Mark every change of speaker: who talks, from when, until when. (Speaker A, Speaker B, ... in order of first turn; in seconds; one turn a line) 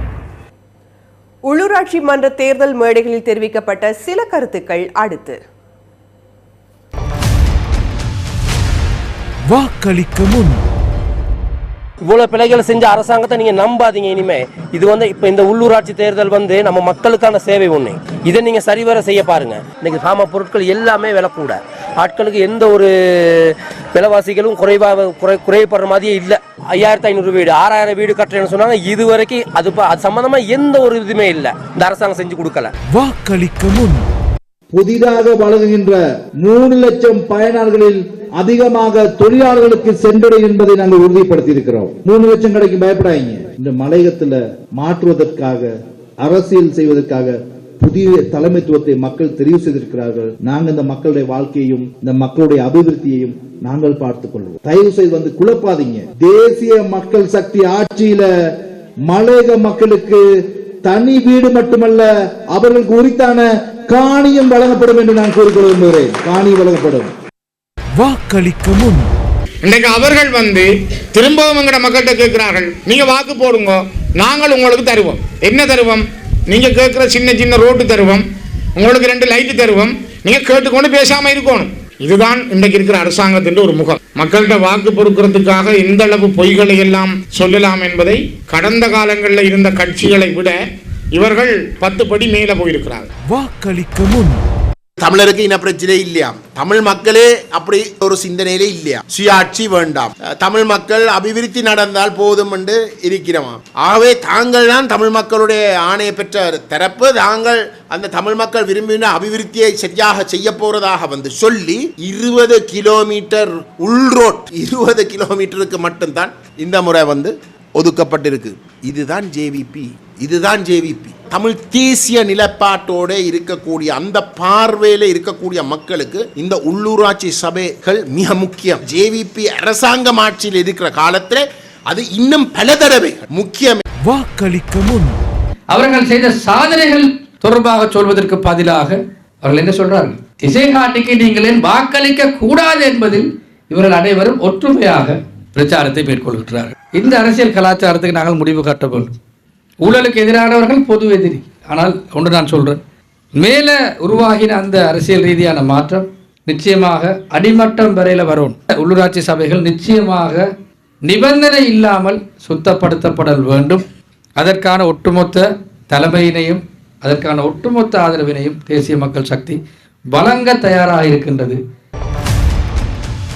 Speaker A: 1.4-5.4
Speaker B: 9.5-10.6
Speaker C: 12.1-32.7
Speaker B: 32.9-34.0
Speaker D: 34.7-58.3
Speaker D: 59.1-60.2
Speaker D: 60.8-67.1
Speaker B: 68.0-69.0
Speaker E: 69.7-78.2
Speaker E: 78.8-84.7
Speaker E: 85.3-90.5
Speaker E: 91.2-93.1
Speaker B: 93.2-94.3
Speaker F: 95.0-133.8
Speaker B: 134.1-135.1
Speaker G: 135.7-149.1
Speaker G: 149.8-152.8
Speaker G: 153.3-160.5
Speaker G: 161.0-163.8
Speaker G: 164.4-169.6
Speaker G: 170.1-171.6